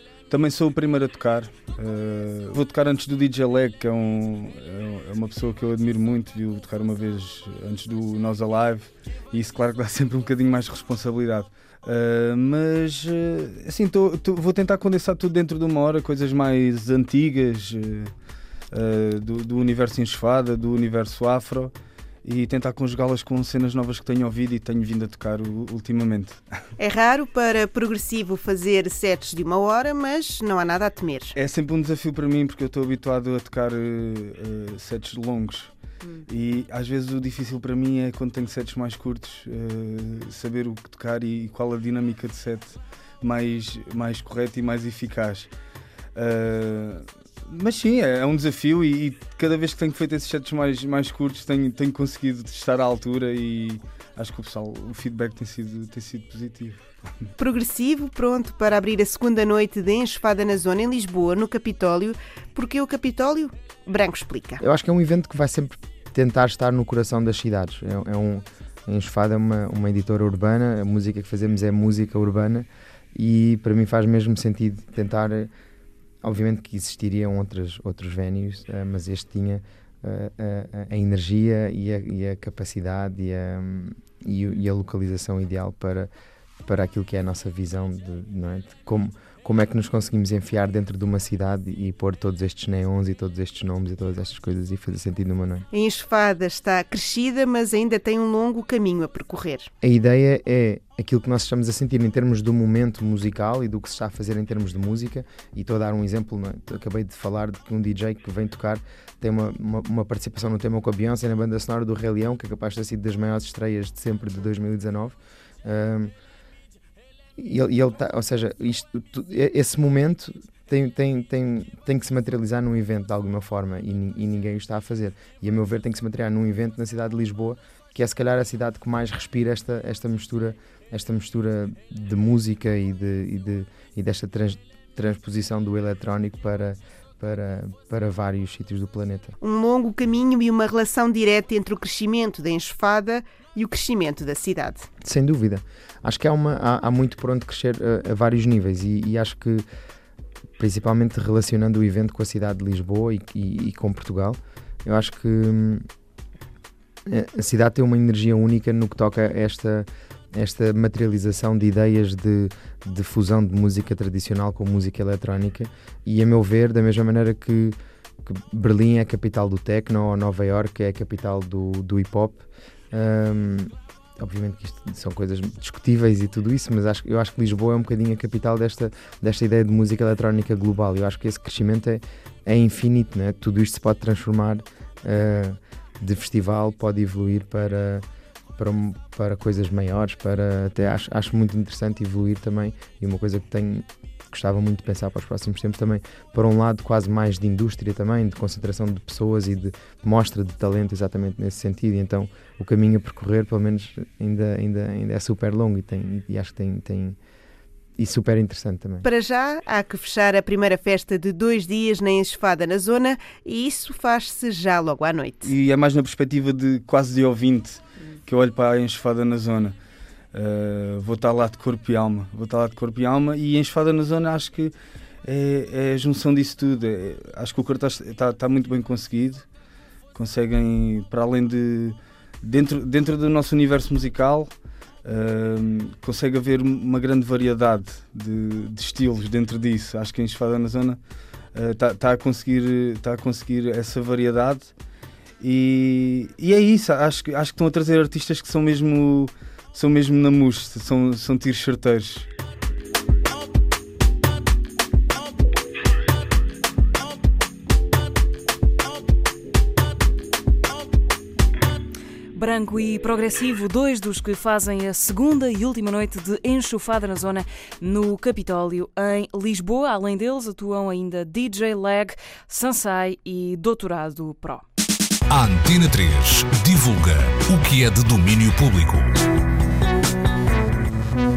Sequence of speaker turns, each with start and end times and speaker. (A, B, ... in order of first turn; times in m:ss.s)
0:00.3-0:18.1 A
0:18.7-0:26.4 A
0:26.8-0:31.3 B
0:31.3-0:35.7 A
0:36.3-0:45.5 A
0:46.1-0:57.3 A
0:57.4-1:04.6 B
1:04.6-1:15.5 C
1:16.2-1:26.1 C
1:26.6-1:35.6 C
1:35.7-1:39.7 B
1:39.8-1:56.1 C
1:57.4-2:19.3 C
2:19.4-2:24.9 B
2:25.0-2:29.6 C
2:30.6-2:35.8 C
2:37.1-3:08.0 C
3:08.6-3:27.2 C
3:28.0-3:29.0 C
3:29.0-3:35.5 B
3:35.4-3:39.7 A
3:40.3-3:44.7 A
3:45.2-3:49.4 A
3:50.1-3:54.5 A
3:55.0-4:01.0 A
4:01.5-4:04.7 A
4:05.4-4:12.3 A
4:22.3-4:34.6 D
4:35.3-4:39.1 E